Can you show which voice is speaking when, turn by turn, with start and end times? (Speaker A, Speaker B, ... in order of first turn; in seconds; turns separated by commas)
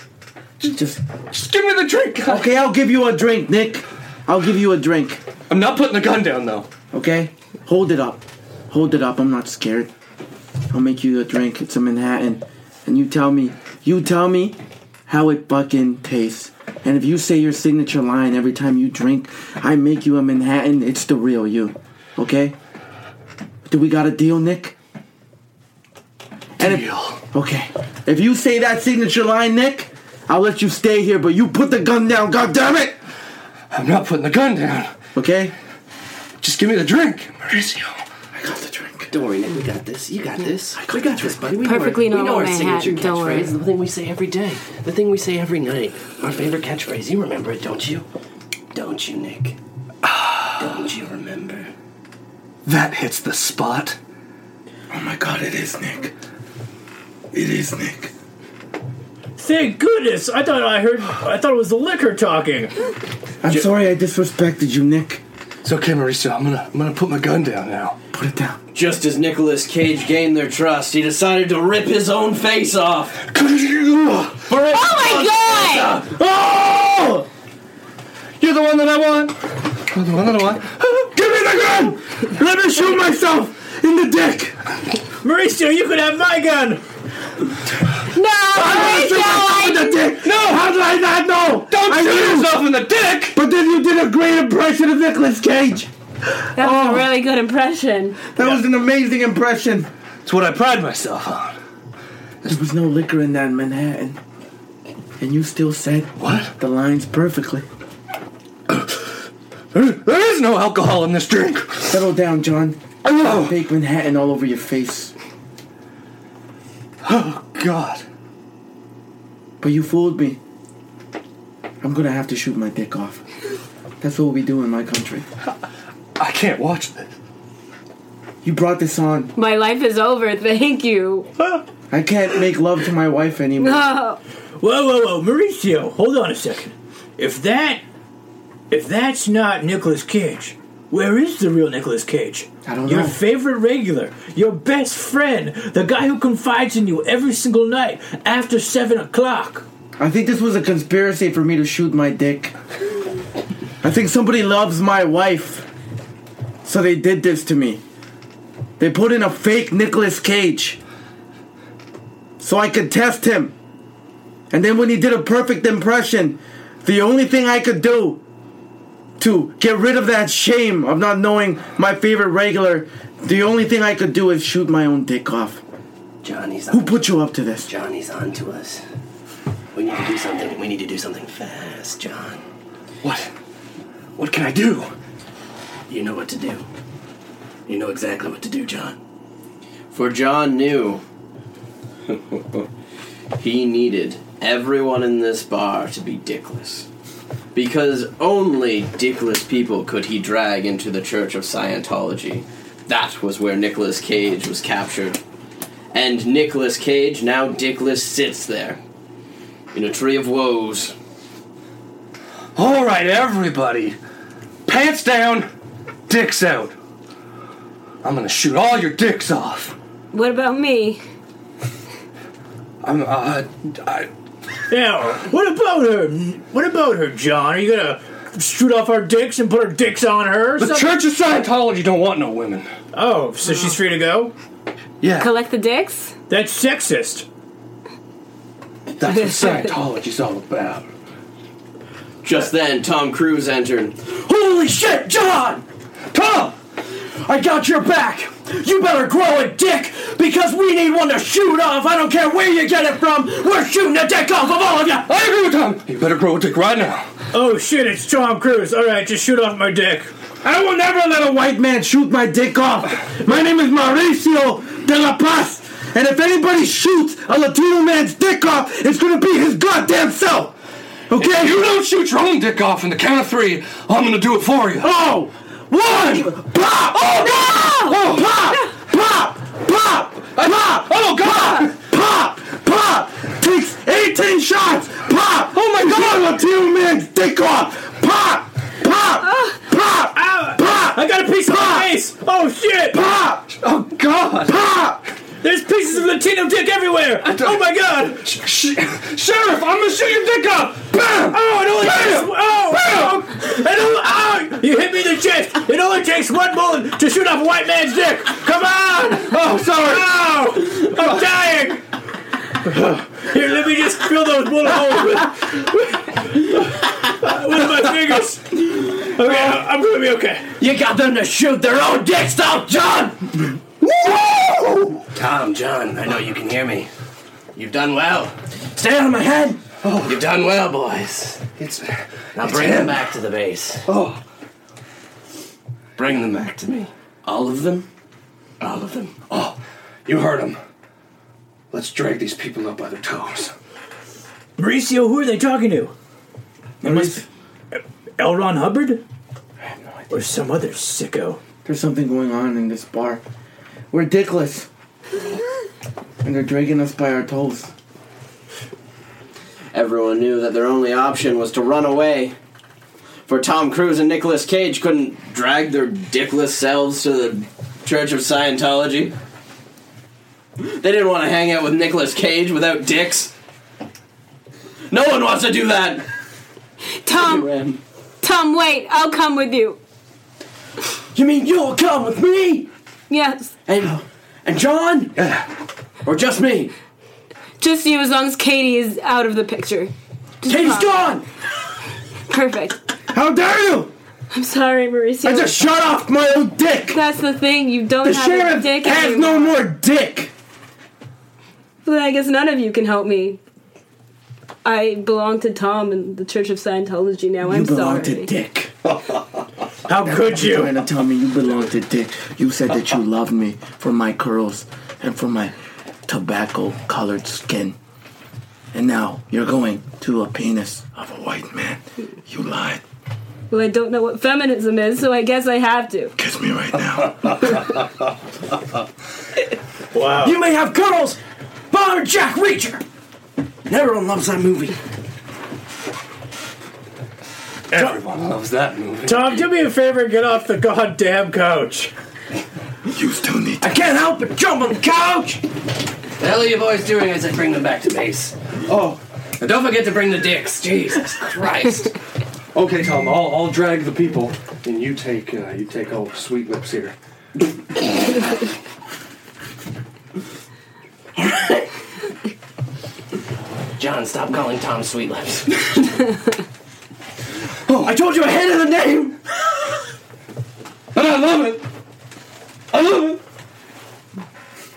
Speaker A: 0.6-1.0, Speaker B: 1.3-2.5, Speaker A: 2.2-5.2, Speaker B: 5.5-6.7, Speaker A: 6.9-9.9, Speaker A: 10.7-22.6, Speaker A: 23.6-24.8, Speaker B: 26.6-27.2, Speaker A: 26.6-33.0, Speaker B: 33.7-34.9, Speaker A: 35.1-35.5, Speaker B: 36.4-38.0, Speaker A: 38.3-39.1, Speaker C: 39.1-48.1, Speaker A: 40.8-41.2, Speaker D: 41.5-43.5, Speaker C: 48.7-49.6, Speaker B: 50.0-50.6, Speaker C: 50.5-51.7, Speaker B: 52.6-54.0, Speaker A: 54.9-56.1, Speaker A: 57.3-58.1, Speaker E: 59.4-62.7, Speaker A: 63.4-65.2, Speaker B: 65.6-68.0, Speaker A: 68.1-68.6, Speaker F: 68.7-73.2, Speaker B: 73.2-74.6, Speaker F: 74.5-75.8, Speaker D: 74.6-76.0, Speaker A: 76.0-77.2, Speaker B: 78.4-81.1, Speaker A: 81.1-84.6, Speaker E: 85.2-86.8, Speaker D: 88.1-90.0, Speaker A: 88.5-92.7, Speaker B: 90.2-90.7, Speaker B: 91.7-93.4, Speaker A: 93.3-95.9, Speaker A: 96.6-97.1, Speaker D: 96.6-98.2, Speaker A: 98.3-99.9, Speaker B: 100.2-101.6, Speaker A: 102.5-104.2, Speaker A: 105.2-107.7, Speaker B: 106.2-106.5, Speaker B: 108.7-109.1, Speaker B: 109.7-112.0, Speaker A: 111.9-115.1, Speaker B: 113.0-113.5, Speaker B: 117.0-118.0, Speaker A: 119.6-120.4, Speaker A: 121.8-123.2, Speaker A: 124.0-125.3, Speaker B: 126.2-127.1, Speaker A: 128.4-129.3, Speaker D: 129.3-131.3, Speaker A: 131.9-133.9, Speaker D: 133.6-134.2, Speaker E: 134.6-137.8, Speaker E: 138.7-149.7, Speaker A: 142.7-143.2, Speaker A: 150.0-152.6, Speaker A: 153.8-155.7, Speaker A: 156.6-157.8, Speaker A: 158.8-160.8, Speaker A: 162.4-163.5, Speaker A: 164.5-168.2, Speaker A: 169.2-175.6, Speaker C: 176.2-178.8, Speaker A: 176.7-177.7, Speaker C: 179.7-182.4, Speaker B: 183.0-183.3, Speaker B: 184.2-184.9, Speaker C: 185.9-186.7, Speaker C: 187.7-189.0, Speaker F: 189.9-191.0, Speaker F: 193.4-196.9, Speaker F: 197.6-205.2, Speaker F: 205.9-208.8, Speaker F: 209.7-210.9, Speaker B: 212.6-214.0, Speaker B: 214.7-215.5, Speaker B: 216.1-216.8, Speaker B: 218.0-219.8, Speaker D: 220.1-221.0, Speaker B: 222.8-224.1, Speaker E: 224.7-230.9, Speaker B: 230.6-232.7, Speaker E: 232.9-234.3, Speaker B: 235.0-235.3, Speaker D: 235.2-236.1, Speaker E: 236.3-237.3, Speaker B: 239.0-240.9, Speaker D: 239.2-239.7, Speaker F: 242.2-244.2, Speaker A: 244.3-245.6, Speaker B: 246.1-246.6, Speaker A: 247.2-255.1, Speaker B: 255.0-257.1, Speaker E: 257.3-260.1, Speaker A: 260.4-270.6, Speaker A: 271.1-271.6, Speaker B: 271.2-274.9, Speaker A: 274.8-291.9, Speaker B: 277.0-278.3, Speaker B: 280.4-281.7, Speaker B: 285.5-286.3, Speaker D: 289.2-289.6, Speaker E: 290.1-293.0, Speaker A: 292.9-293.6, Speaker B: 293.5-294.6, Speaker A: 294.5-295.0, Speaker E: 295.4-298.2, Speaker B: 297.2-303.2, Speaker E: 301.2-311.8, Speaker B: 309.3-310.1, Speaker E: 312.6-320.5, Speaker F: 320.6-323.3, Speaker B: 323.9-324.9, Speaker C: 325.1-326.9, Speaker C: 327.6-328.4, Speaker F: 328.7-329.6, Speaker B: 329.8-330.2, Speaker C: 330.0-331.4, Speaker B: 331.6-333.0, Speaker C: 332.4-333.9, Speaker B: 333.9-334.2, Speaker C: 336.0-336.9, Speaker F: 337.2-337.9, Speaker C: 338.6-339.1, Speaker B: 339.3-340.6, Speaker B: 341.7-343.5, Speaker E: 344.6-345.9, Speaker A: 346.8-347.2, Speaker E: 346.8-349.0, Speaker E: 350.1-351.4, Speaker A: 351.6-353.2, Speaker A: 353.9-354.7, Speaker A: 356.2-357.7, Speaker F: 359.7-362.4, Speaker F: 363.3-369.1, Speaker F: 370.6-373.3, Speaker F: 374.9-376.1, Speaker D: 377.0-377.5, Speaker F: 377.1-377.8, Speaker D: 378.2-379.8, Speaker F: 381.1-382.7, Speaker D: 383.1-383.5, Speaker F: 383.7-385.2, Speaker B: 385.2-385.5, Speaker F: 386.1-386.7, Speaker D: 387.6-391.1, Speaker F: 390.5-391.2, Speaker D: 392.3-392.8, Speaker A: 393.1-393.9, Speaker D: 394.3-395.6, Speaker A: 395.2-397.0, Speaker D: 396.9-399.6, Speaker A: 398.0-400.3, Speaker D: 401.9-403.4, Speaker D: 404.6-408.3, Speaker A: 407.4-408.7, Speaker B: 408.9-409.2, Speaker E: 409.9-410.8, Speaker A: 410.1-415.5, Speaker A: 416.1-417.8, Speaker A: 418.7-422.8, Speaker D: 423.5-426.1, Speaker A: 426.2-427.6, Speaker E: 429.9-430.4, Speaker F: 430.2-431.2, Speaker F: 431.7-432.8, Speaker F: 433.7-434.8, Speaker B: 437.7-439.4, Speaker E: 439.0-441.9, Speaker A: 442.9-443.7, Speaker F: 443.6-445.4, Speaker C: 446.2-448.4, Speaker B: 448.7-449.0, Speaker C: 449.4-451.9, Speaker B: 452.5-456.9, Speaker F: 461.2-461.7, Speaker C: 463.8-465.7, Speaker B: 467.7-467.9, Speaker F: 467.8-469.2, Speaker B: 470.9-471.6, Speaker F: 472.7-473.2, Speaker B: 472.7-473.1